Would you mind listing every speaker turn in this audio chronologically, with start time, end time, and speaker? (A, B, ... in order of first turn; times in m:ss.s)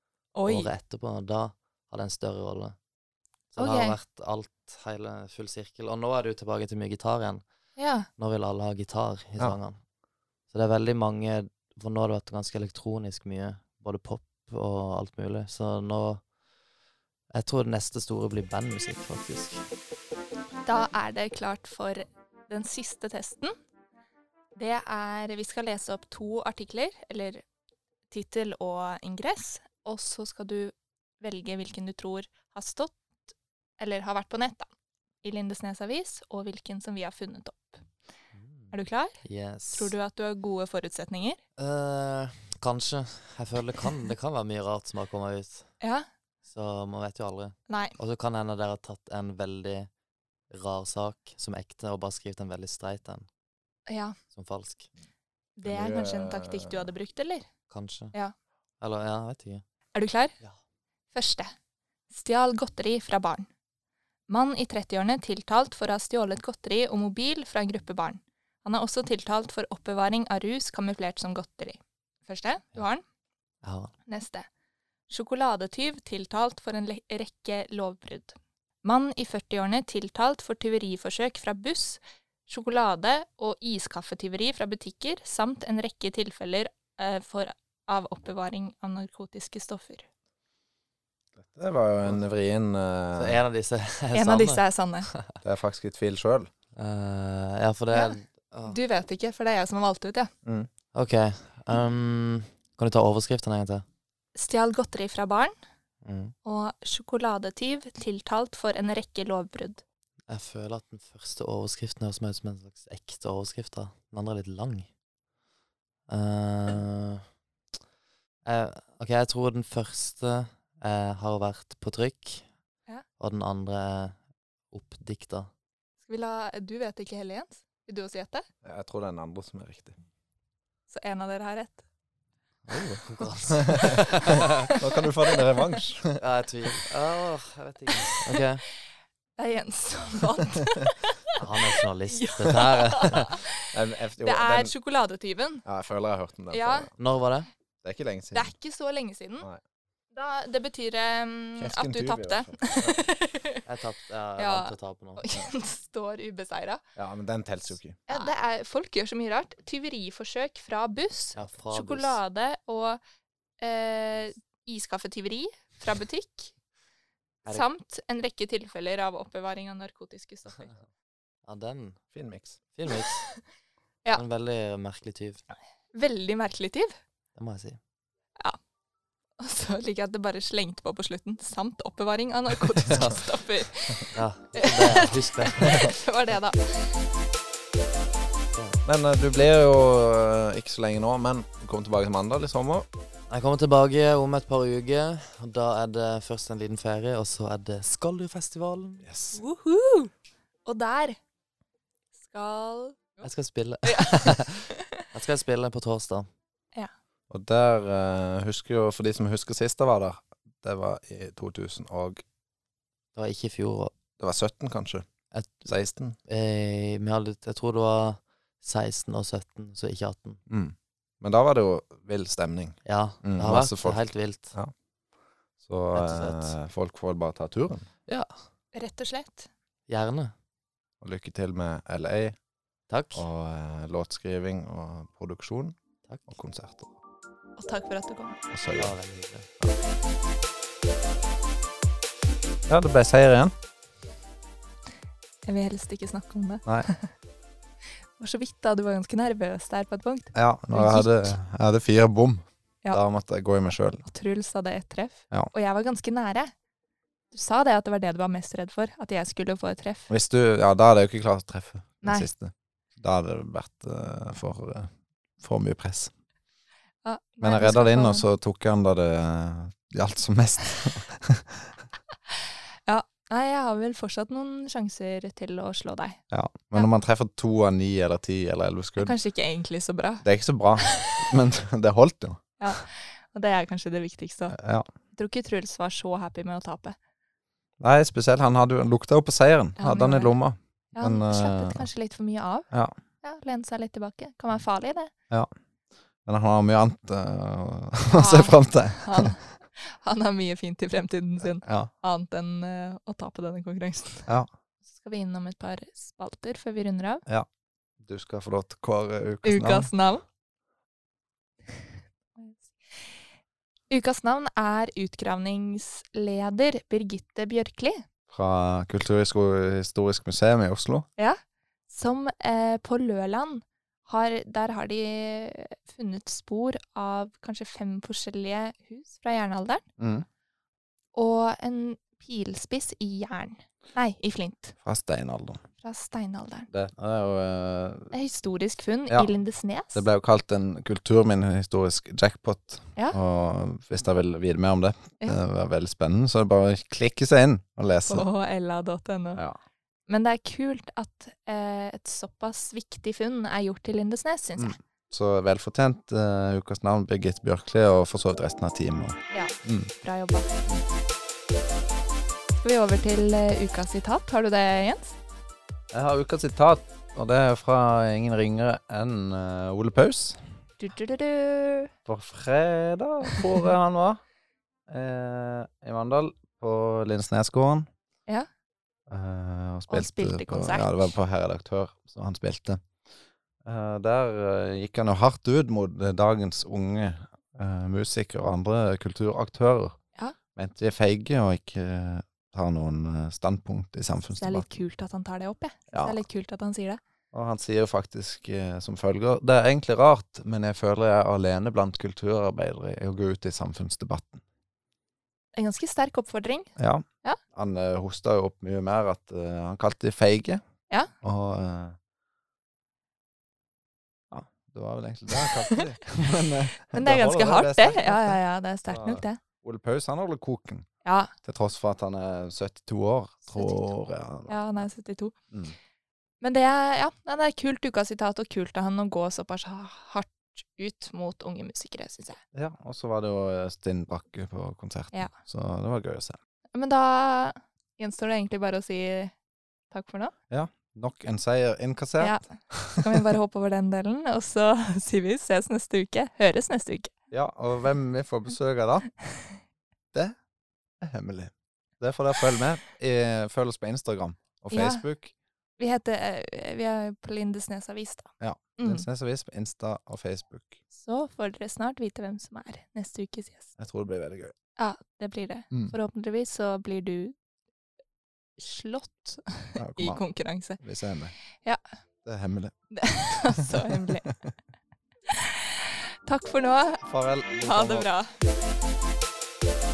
0:00.4-0:00.7 A
0:00.5-0:02.8 B
0:03.5-0:07.4 B
0:03.6-0:04.0 A
0:07.8-0:08.1 A
0:08.2-0:09.8 B
0:10.5-0:16.2 B
0:17.3-0:19.6 B
0:20.6-0:23.5 A
0:24.6-0:27.4 A
0:28.1-0:33.0 A
0:33.8-0:34.7 A
0:35.2-0:37.8 A
0:38.4-0:40.0 B
0:38.7-0:41.4 A
0:41.6-0:45.7 B
0:45.8-0:46.1 A
0:46.4-0:49.9 B
0:47.7-0:48.0 A
0:50.5-0:53.3 B
0:53.9-0:54.2 A
0:54.3-0:54.9 B
0:55.6-0:57.5 A
0:55.6-0:56.9 C
0:57.7-0:58.2 B
0:58.8-0:59.6 B
1:00.0-1:00.4 A
1:01.1-1:01.5 A
1:02.1-1:03.5 A
1:04.3-1:13.0 A
1:13.6-1:13.9 B
1:14.1-1:14.5 A
1:15.1-1:30.0 A
1:31.4-1:33.4 C
1:33.2-1:35.3 B
1:34.1-1:35.1 A
1:35.4-1:36.5 C
1:36.8-1:38.8 B
1:37.9-1:38.2 A
1:38.7-1:40.3 A
1:40.9-1:43.8 B
1:44.4-1:45.5 A
1:46.0-1:46.3 B
1:46.4-1:49.8 A
1:50.3-1:54.9 B
1:56.1-1:57.3 B
1:58.4-2:02.5 B
2:03.2-2:04.2 B
2:04.7-2:05.5 B
2:06.0-2:08.5 A
2:08.6-2:10.0 C
2:10.9-2:11.8 A
2:12.7-2:14.7 B
2:13.6-2:16.2 C
2:14.4-2:14.7 A
2:16.2-2:18.6 B
2:19.4-2:23.6 A
2:21.4-2:23.4 B
2:23.7-2:24.7 C
2:24.2-2:25.6 A
2:25.6-2:26.9 C
2:26.5-2:26.9 A
2:27.0-2:27.5 B
2:27.8-2:28.5 C
2:28.3-2:29.5 A
2:30.1-2:33.6 A
2:31.6-2:33.0 C
2:33.7-2:35.3 B
2:34.4-2:36.8 A
2:37.0-2:38.0 C
2:38.1-2:43.0 A
2:41.3-2:42.2 B
2:43.6-2:46.5 A
2:47.4-2:50.8 A
2:51.5-2:52.0 B
2:52.1-2:52.6 C
2:52.8-2:53.2 B
2:52.9-2:53.4 A
2:54.1-2:55.4 B
2:55.9-2:57.0 A
2:57.4-2:57.8 B
2:59.4-3:07.0 A
3:04.1-3:05.9 B
3:08.8-3:12.9 C
3:13.3-3:19.1 B
3:19.0-3:19.4 C
3:19.3-3:20.1 A
3:20.6-3:21.2 A
3:22.2-3:23.2 A
3:23.2-3:26.3 B
3:23.8-3:24.8 A
3:27.3-3:32.2 C
3:33.2-3:34.0 B
3:34.2-3:35.1 C
3:35.3-3:35.7 B
3:35.7-3:36.2 C
3:36.2-3:40.4 B
3:40.5-3:44.7 C
3:42.8-3:44.6 B
3:45.6-3:47.9 C
3:45.9-3:46.6 B
3:48.7-3:49.5 A
3:49.9-3:50.3 B
3:51.0-3:52.4 C
3:52.9-3:53.2 B
3:53.2-3:55.8 C
3:56.3-3:56.9 C
3:57.6-3:58.4 A
3:58.5-3:59.0 C
3:58.8-3:59.6 B
4:02.7-4:03.5 C
4:05.5-4:07.1 A
4:08.2-4:11.3 A
4:10.3-4:14.0 C
4:14.0-4:16.5 A
4:17.3-4:20.1 A
4:20.1-4:26.1 C
4:22.0-4:22.3 A
4:27.0-4:28.2 A
4:27.4-4:31.7 C
4:32.3-4:36.2 A
4:36.3-4:39.2 C
4:39.0-4:40.3 A
4:40.2-4:42.8 C
4:40.8-4:41.3 A
4:42.6-4:44.6 A
4:44.5-4:44.9 C
4:45.1-4:47.0 A
4:47.8-4:51.9 C
4:49.8-4:50.4 A
4:51.0-4:52.7 A
4:53.2-4:55.1 A
4:56.2-4:59.4 C
4:58.1-5:04.3 A
5:01.6-5:01.9 C
5:04.9-5:07.2 A
5:08.0-5:09.9 C
5:09.4-5:10.2 A
5:12.4-5:13.1 A
5:13.9-5:18.0 A
5:18.3-5:21.1 C
5:21.2-5:29.8 A
5:30.0-5:30.3 C
5:31.1-5:34.7 A
5:34.8-5:35.6 C
5:35.8-5:36.7 A
5:36.7-5:38.1 C
5:38.1-5:40.1 A
5:39.9-5:48.2 C
5:48.1-5:49.4 A
5:50.1-5:54.8 A
5:54.6-5:59.9 C
5:59.3-6:00.5 A
6:02.6-6:05.2 A
6:05.9-6:10.4 C
6:10.8-6:11.9 A
6:12.1-6:14.2 C
6:14.9-6:17.9 C
6:19.1-6:22.8 C
6:19.9-6:21.0 A
6:23.6-6:30.0 C
6:30.6-6:34.7 C
6:34.4-6:37.0 A
6:35.9-6:36.2 C
6:37.3-6:44.4 C
6:45.6-6:46.7 A
6:46.8-6:50.6 C
6:51.2-6:52.0 C
6:54.3-6:58.4 C
6:55.4-6:55.7 A
6:56.9-6:59.4 A
6:58.9-7:00.9 C
7:01.0-7:01.3 A
7:01.4-7:04.6 C
7:03.5-7:03.9 A
7:04.5-7:05.4 A
7:06.4-7:12.4 A
7:12.5-7:16.4 C
7:16.7-7:19.3 A
7:19.9-7:20.3 A
7:20.5-7:23.2 C
7:22.2-7:27.1 A
7:27.3-7:29.1 C
7:31.0-7:35.3 C
7:34.7-7:35.0 A
7:35.8-7:39.1 A
7:38.4-7:40.8 C
7:40.9-7:43.7 A
7:43.8-7:44.5 C
7:44.8-7:47.4 A
7:48.6-7:50.8 A
7:49.8-7:50.2 C
7:50.8-7:51.4 C
7:52.2-7:52.7 C
7:52.9-7:54.3 A
7:53.5-7:54.4 C
7:55.3-7:57.0 A
7:57.0-7:58.1 C
7:57.6-7:58.3 A